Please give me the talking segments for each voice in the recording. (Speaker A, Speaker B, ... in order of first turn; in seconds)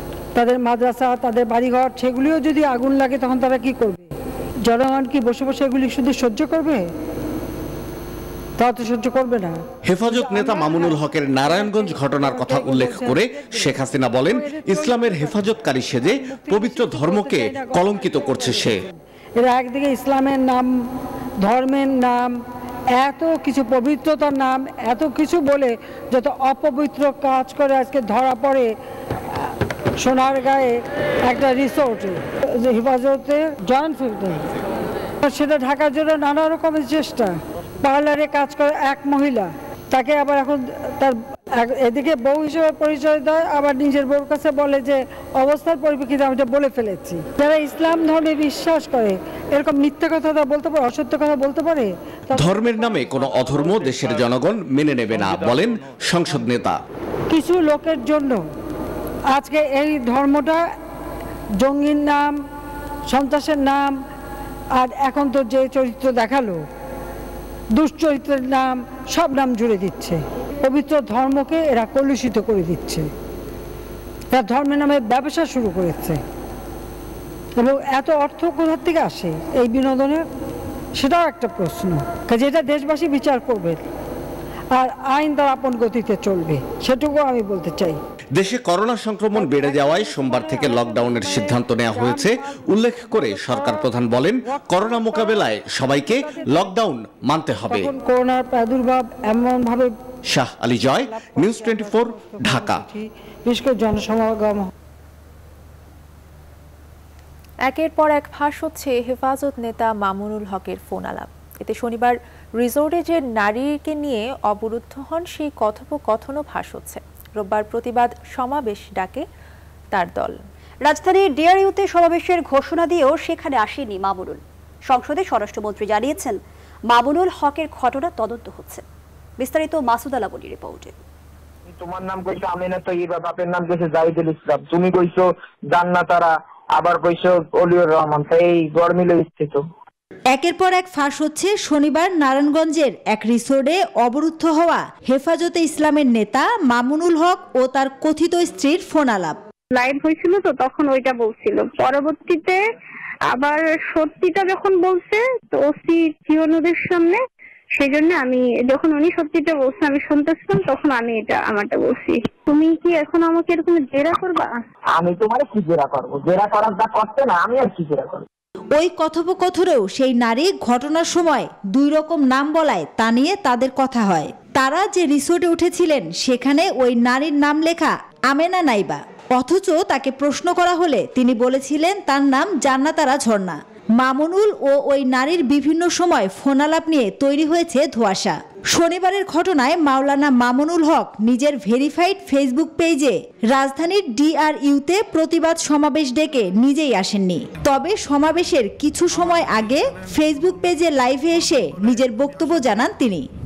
Speaker A: 0.4-4.1, 4.7-6.9, 8.6-15.4, 16.2-18.7, 19.4-20.7, 21.4-22.3, 23.0-28.7, 29.4-34.5, 35.2-52.9, 57.3-58.4, 59.3-60.7, 61.6-62.4, 63.1-64.0, 64.8-66.7, 67.8-73.1, 74.3-76.2, 77.6-80.2, 81.0-83.8, 84.7-88.0, 89.4-92.3, 93.0-93.9, 94.5-96.7, 97.7-99.9, 101.0-104.7
Speaker B: 9.9-18.8, 52.3-56.8, 88.3-97.9, 100.3-102.9
Speaker C: 107.7-119.2, 119.9-120.4
Speaker D: 120.9-126.4, 126.9-128.8, 129.4-130.9
Speaker E: 131.8-139.6, 165.0-168.2
Speaker F: 140.3-149.4, 168.7-203.3
Speaker G: 149.7-152.6, 153.3-157.2, 157.8-164.6